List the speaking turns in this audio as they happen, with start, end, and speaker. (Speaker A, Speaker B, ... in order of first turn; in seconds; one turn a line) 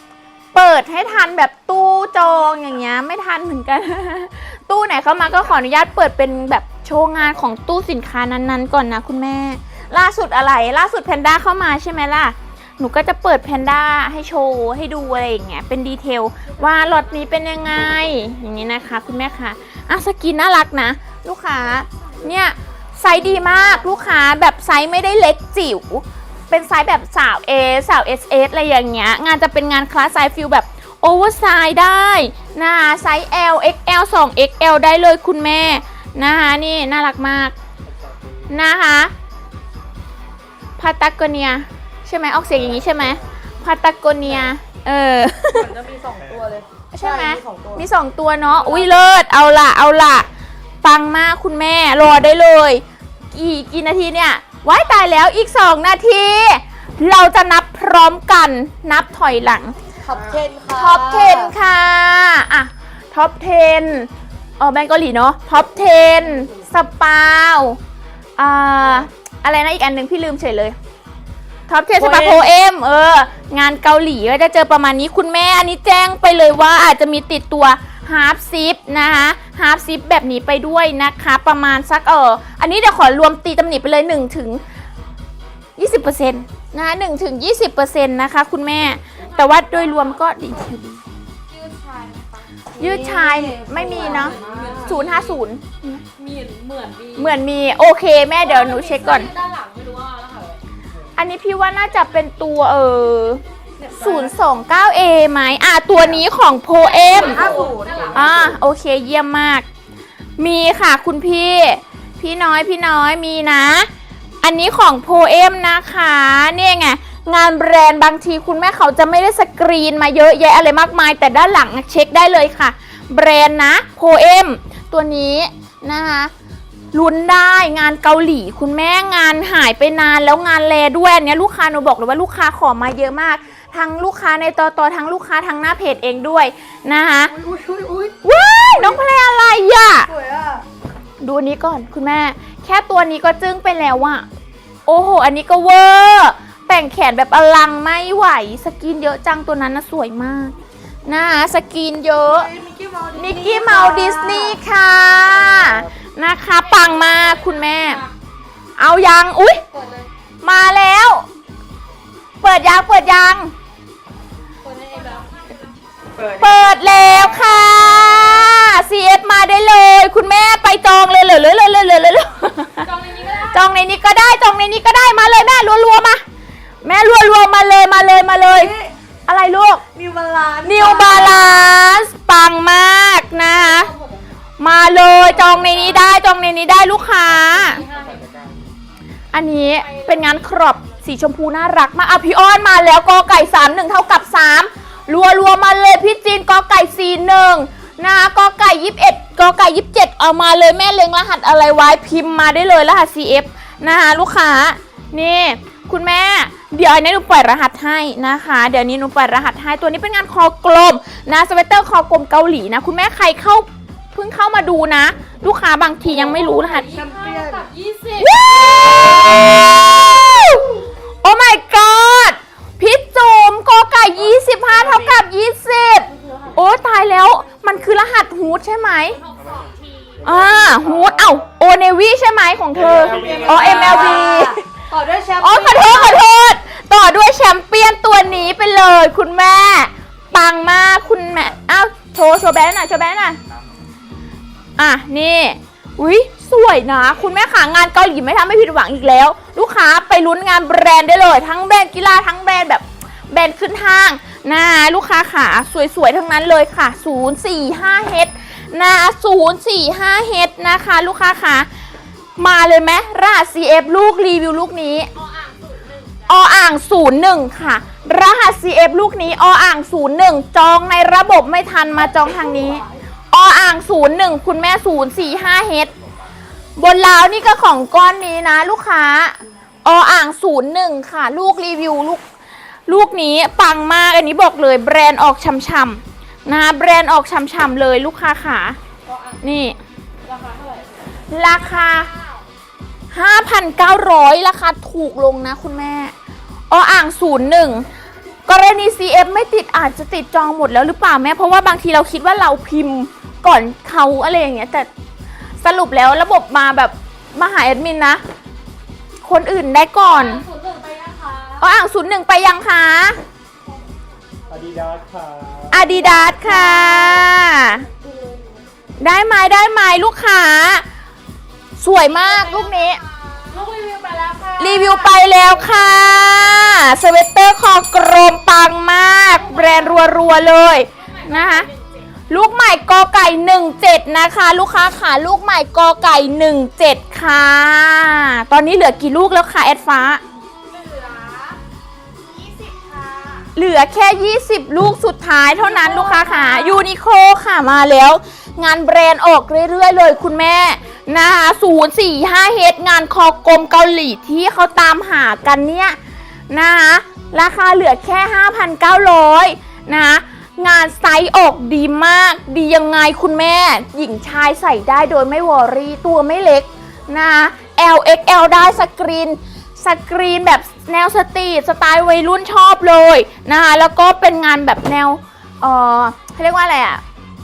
Speaker A: 0.5-37.5
Speaker B: 16.5-17.4
Speaker B: 23.1-24.1
Speaker C: 37.9-38.5
Speaker A: 38.5-39.1
Speaker A: 40.8-45.7
Speaker C: 42.7-43.2
Speaker D: 45.8-47.9
Speaker A: 46.9-50.3
Speaker B: 48.4-49.1
Speaker A: 50.8-59.8
Speaker D: 60.0-61.5
Speaker A: 60.7-67.8
Speaker B: 66.0-66.7
Speaker A: 68.4-70.8
Speaker A: 71.7-84.6
Speaker D: 72.0-72.5
Speaker A: 85.8-91.0
Speaker B: 89.2-90.3
Speaker B: 91.5-92.7
Speaker D: 92.7-95.0
Speaker A: 92.8-96.0
Speaker B: 93.8-95.4
Speaker B: 96.1-97.4
Speaker A: 97.2-99.3
Speaker B: 98.4-100.6
Speaker A: 101.2-103.4
Speaker B: 103.8-104.3
Speaker A: 103.9-109.7
Speaker B: 106.8-108.5
Speaker D: 107.1-108.1
Speaker A: 110.4-113.9
Speaker A: 114.4-126.3
Speaker A: 126.9-137.3
Speaker D: 137.3-138.2
Speaker A: 138.2-140.1
Speaker D: 140.1-140.7
Speaker A: 141.2-144.2
Speaker A: 144.9-150.5
Speaker A: 151.1-152.5
Speaker D: 152.3-154.6
Speaker A: 153.1-158.0
Speaker C: 155.3-155.9
Speaker B: 156.6-158.1
Speaker A: 158.8-159.6
Speaker B: 159.7-160.1
Speaker A: 160.4-161.2
Speaker A: 162.4-163.5
Speaker B: 164.6-165.7
Speaker A: 166.4-172.9
Speaker B: 172.8-173.7
Speaker A: 173.4-176.2
Speaker A: 176.8-178.7
Speaker D: 178.4-178.9
Speaker A: 179.3-179.8
Speaker D: 179.9-181.7
Speaker A: 180.6-183.9
Speaker B: 183.4-184.4
Speaker A: 184.6-187.8
Speaker B: 185.3-186.1
Speaker B: 187.0-188.5
Speaker A: 189.3-216.9
Speaker B: 189.6-190.8
Speaker B: 216.0-219.5
Speaker D: 216.9-217.7
Speaker A: 218.2-229.2
Speaker B: 226.1-226.7
Speaker B: 229.1-230.5
Speaker C: 230.2-231.4
Speaker A: 230.2-234.6
Speaker C: 232.7-234.2
Speaker D: 232.8-236.2
Speaker A: 235.4-243.4
Speaker A: 244.8-261.7
Speaker A: 262.4-265.1
Speaker B: 265.1-266.1
Speaker A: 266.3-275.9
Speaker B: 272.4-272.8
Speaker A: 276.8-282.2
Speaker A: 282.9-288.8
Speaker B: 289.0-289.6
Speaker A: 289.4-289.8
Speaker B: 290.2-292.4
Speaker A: 291.3-292.1
Speaker A: 293.1-296.1
Speaker A: 296.7-297.9
Speaker A: 298.5-304.9
Speaker A: 305.6-308.2
Speaker A: 309.2-310.4
Speaker B: 310.1-311.6
Speaker A: 311.6-313.2
Speaker C: 314.5-315.9
Speaker A: 315.7-317.9
Speaker B: 315.9-318.8
Speaker A: 319.0-320.9
Speaker A: 321.8-323.0
Speaker B: 322.1-325.5
Speaker A: 324.6-331.7
Speaker B: 329.3-330.1
Speaker B: 331.0-331.9
Speaker A: 332.3-340.2
Speaker B: 340.7-341.6
Speaker B: 342.3-343.5
Speaker A: 343.5-356.0
Speaker B: 345.5-346.8
Speaker A: 356.5-377.0